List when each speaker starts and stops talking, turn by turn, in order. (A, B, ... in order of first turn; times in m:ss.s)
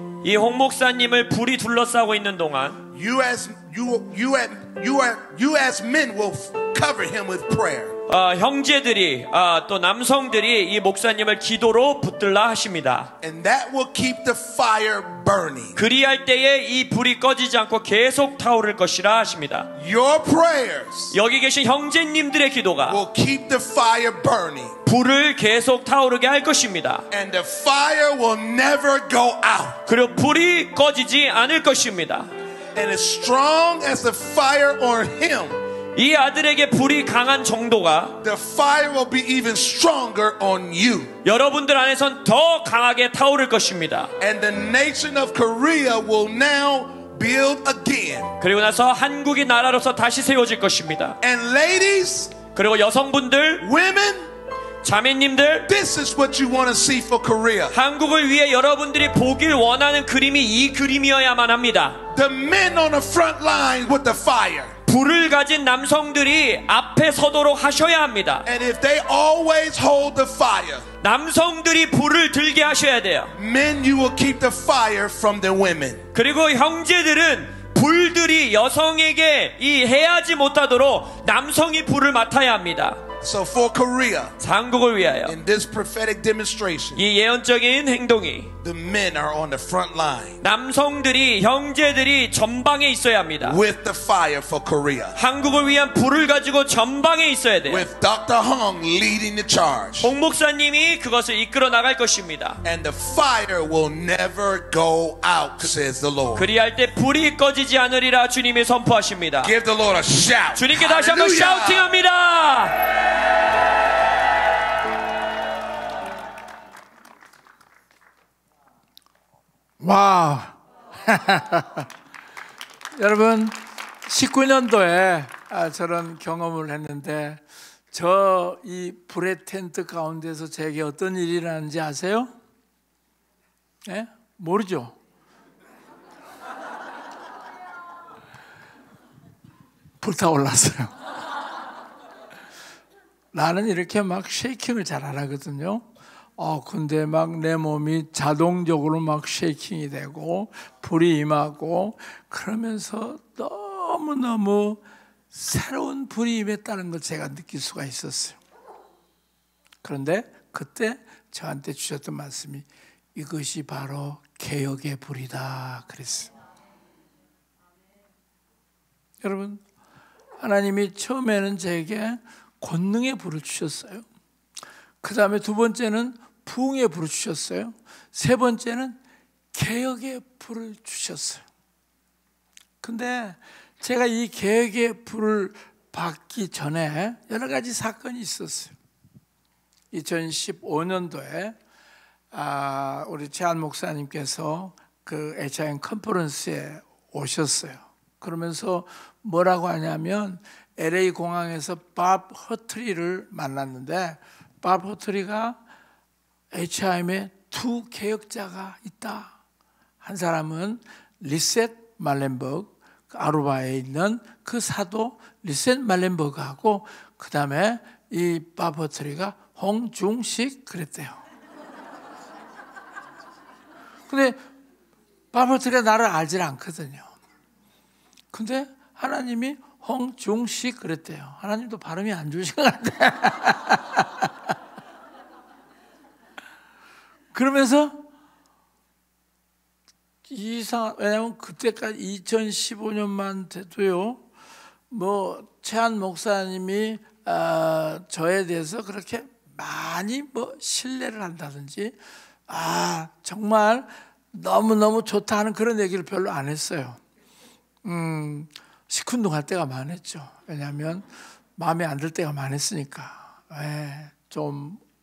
0:00.2-0:02.8 A
0:02.9-0:08.0 B
0:08.1-0:13.1 A
0:13.2-0:15.8 B
0:15.8-0:19.7 A
0:19.8-0:21.2 B
0:21.1-0:23.0 A
0:22.9-0:24.8 B
0:24.9-0:27.0 A
0:27.1-0:29.8 B
0:29.9-0:32.3 A
0:32.8-0:35.6 B
0:36.0-0:38.2 A
0:38.2-0:41.1 B
0:41.2-0:44.1 A
0:44.2-0:48.4 B
0:48.4-0:51.2 A
0:51.2-0:52.4 B
0:52.6-0:53.7 A
0:53.6-0:54.3 B
0:54.8-0:55.7 A
0:55.7-0:57.8 B
0:57.7-1:02.0 A
1:02.1-1:04.8 B
1:04.9-1:08.5 A
1:08.4-1:10.9 B
1:11.0-1:13.3 A
1:13.4-1:16.0 B
1:16.1-1:23.0 A
1:23.2-1:24.4 B
1:24.4-1:25.4 A
1:25.2-1:27.0 B
1:27.0-1:28.5 A
1:28.6-1:30.4 B
1:30.4-1:33.6 A
1:33.4-1:35.2 B
1:35.2-1:37.9 A
1:37.7-1:40.1 B
1:40.0-1:42.6 A
1:42.6-1:46.5 B
1:46.4-1:49.5 A
1:49.4-1:51.9 B
1:50.6-1:52.8 A
1:59.8-2:01.9 C
2:03.0-2:12.3 C
2:13.9-2:15.0 C
2:20.0-2:20.9 C
2:23.3-2:25.8 C
2:26.4-2:38.4 C
2:39.8-2:46.3 C
2:49.2-2:49.6 C
2:50.4-2:54.0 C
2:55.0-2:59.0 C
2:59.5-3:01.4 C
3:02.8-3:08.7 C
3:09.9-3:11.6 C
3:12.3-3:25.6 C
3:26.5-3:29.4 C
3:30.0-3:41.2 C
3:44.1-3:44.4 C
3:45.3-3:47.1 C
3:48.3-3:54.3 C
3:57.3-3:58.0 C
4:00.3-4:04.2 C
4:04.9-4:12.0 C
4:12.5-4:17.0 C
4:17.8-4:24.8 C